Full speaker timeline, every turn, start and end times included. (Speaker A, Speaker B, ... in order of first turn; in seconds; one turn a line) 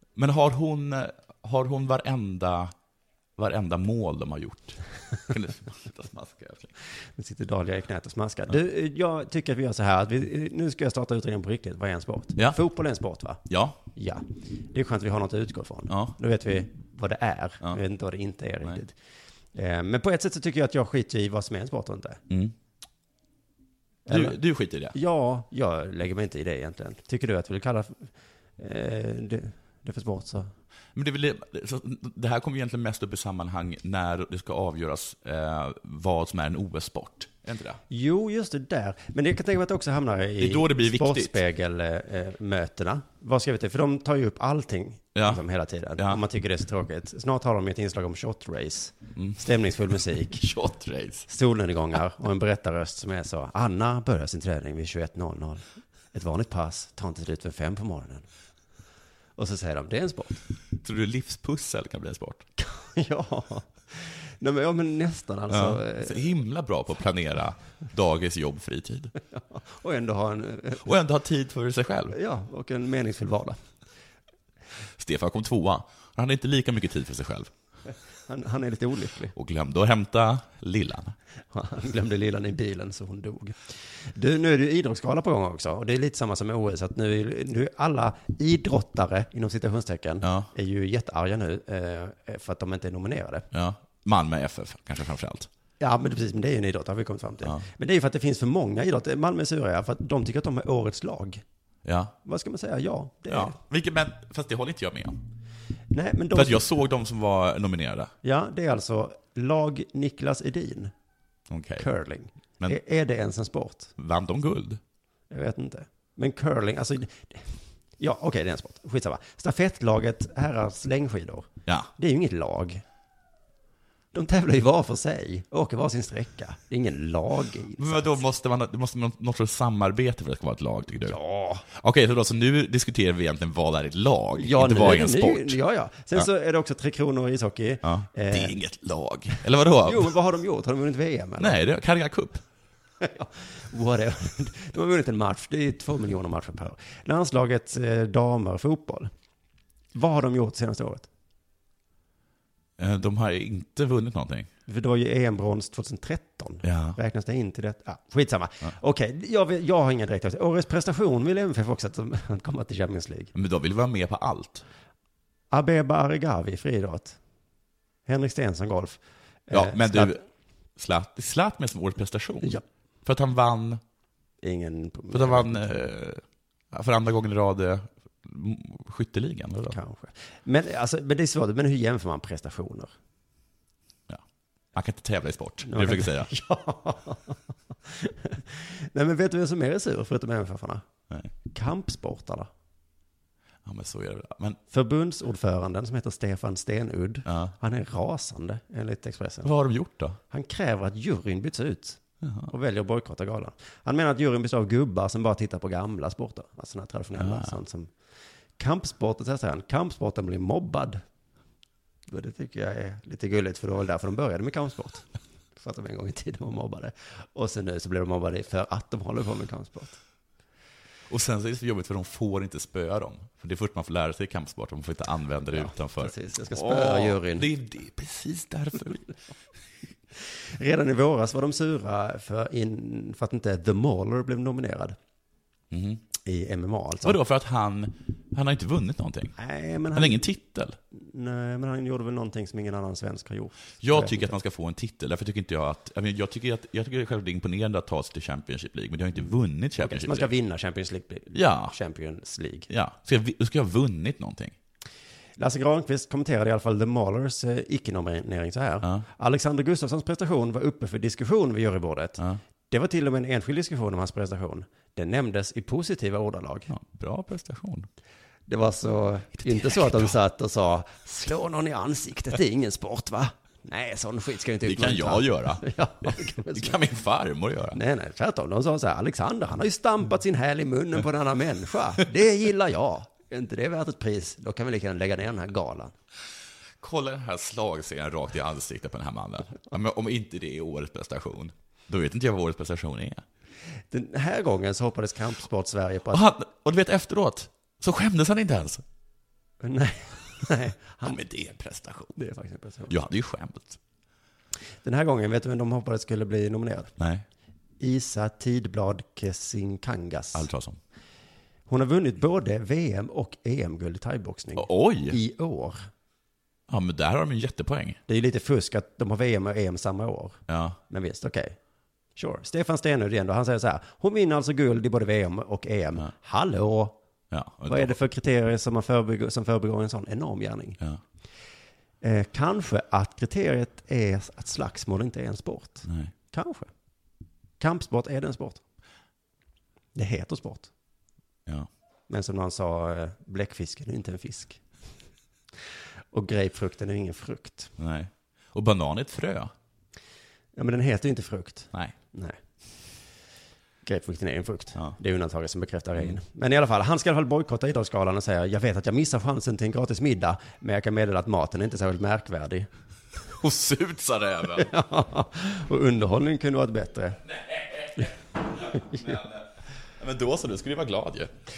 Speaker A: 0.1-2.7
Speaker A: 3.4-6.7
Speaker B: 7.2-13.4
Speaker A: 13.5-13.8
Speaker B: 13.9-18.9
Speaker A: 15.9-16.1
Speaker B: 19.5-22.2
Speaker A: 22.3-22.5
Speaker B: 24.1-24.4
Speaker A: 24.1-24.9
Speaker B: 24.9-30.5
Speaker A: 30.9-37.8
Speaker B: 37.9-50.4
Speaker A: 40.4-41.4
Speaker A: 45.1-45.4
Speaker A: 46.0-46.2
Speaker A: 50.3-51.3
Speaker B: 51.3-58.2
Speaker B: 59.4-60.4
Speaker A: 60.8-62.4
Speaker B: 62.6-66.2
Speaker A: 65.5-69.1
Speaker B: 69.3-70.9
Speaker A: 70.8-72.2
Speaker B: 72.1-73.6
Speaker A: 75.0-77.5
Speaker B: 78.3-79.3
Speaker A: 79.3-81.2
Speaker B: 81.5-93.5
Speaker A: 90.2-90.5
Speaker A: 93.5-95.5
Speaker B: 95.8-101.4
Speaker A: 101.8-102.1
Speaker B: 102.2-103.6
Speaker A: 103.3-105.2
Speaker B: 105.9-106.7
Speaker A: 106.3-108.1
Speaker B: 108.2-110.9
Speaker A: 111.5-111.9
Speaker B: 111.8-113.9
Speaker A: 114.0-114.8
Speaker B: 115.3-122.8
Speaker B: 124.1-128.2
Speaker A: 127.8-131.2
Speaker B: 131.0-131.6
Speaker A: 131.7-135.6
Speaker B: 134.4-138.6
Speaker A: 137.8-140.1
Speaker B: 139.8-141.6
Speaker A: 141.4-142.4
Speaker B: 143.0-149.1
Speaker B: 149.9-151.1
Speaker A: 152.8-154.5
Speaker B: 154.7-163.3
Speaker A: 156.6-157.0
Speaker A: 163.3-164.6
Speaker B: 165.5-167.2
Speaker B: 168.1-170.2
Speaker A: 169.5-170.2
Speaker A: 170.8-173.8
Speaker B: 174.4-175.7
Speaker A: 175.1-179.8
Speaker B: 179.7-182.9
Speaker A: 184.7-186.3
Speaker B: 185.7-190.8
Speaker B: 191.5-192.5
Speaker A: 193.6-194.6
Speaker B: 194.7-199.5
Speaker A: 197.2-197.5
Speaker A: 199.4-200.2
Speaker B: 200.3-207.9
Speaker A: 202.2-202.5
Speaker A: 207.1-207.6
Speaker B: 208.6-211.0
Speaker B: 212.1-220.0
Speaker A: 221.1-229.1
Speaker B: 225.5-227.5
Speaker B: 230.6-234.9
Speaker A: 235.7-236.0
Speaker B: 236.2-237.2
Speaker A: 237.0-239.3
Speaker B: 239.4-240.2
Speaker A: 239.9-240.8
Speaker B: 240.9-244.3
Speaker A: 243.8-250.3
Speaker B: 249.8-252.7
Speaker A: 251.3-251.7
Speaker A: 252.7-254.5
Speaker B: 255.4-266.7
Speaker A: 266.7-267.9
Speaker B: 268.5-276.8
Speaker A: 269.4-270.1
Speaker A: 274.6-277.8
Speaker B: 277.7-285.9
Speaker A: 286.8-293.2
Speaker B: 293.9-296.2
Speaker A: 296.1-298.8
Speaker B: 299.6-301.1
Speaker A: 301.0-302.2
Speaker B: 302.1-302.9
Speaker A: 302.9-303.8
Speaker B: 304.8-306.9
Speaker A: 307.0-307.2
Speaker B: 307.8-310.5
Speaker A: 310.3-310.8
Speaker B: 311.7-315.9
Speaker A: 314.6-315.2
Speaker A: 316.7-318.0
Speaker B: 318.1-321.6
Speaker A: 320.5-320.8
Speaker B: 322.1-327.0
Speaker A: 327.3-327.9
Speaker B: 327.7-330.8
Speaker B: 332.0-336.7
Speaker A: 335.9-336.1
Speaker B: 337.6-338.6
Speaker B: 339.9-340.7
Speaker B: 342.1-344.6
Speaker B: 346.1-347.7
Speaker A: 347.8-349.5
Speaker B: 350.6-352.4
Speaker B: 353.8-362.7
Speaker A: 363.4-364.7
Speaker B: 364.6-367.2
Speaker A: 367.5-368.1
Speaker A: 368.7-369.4
Speaker B: 368.7-369.2
Speaker A: 370.0-371.3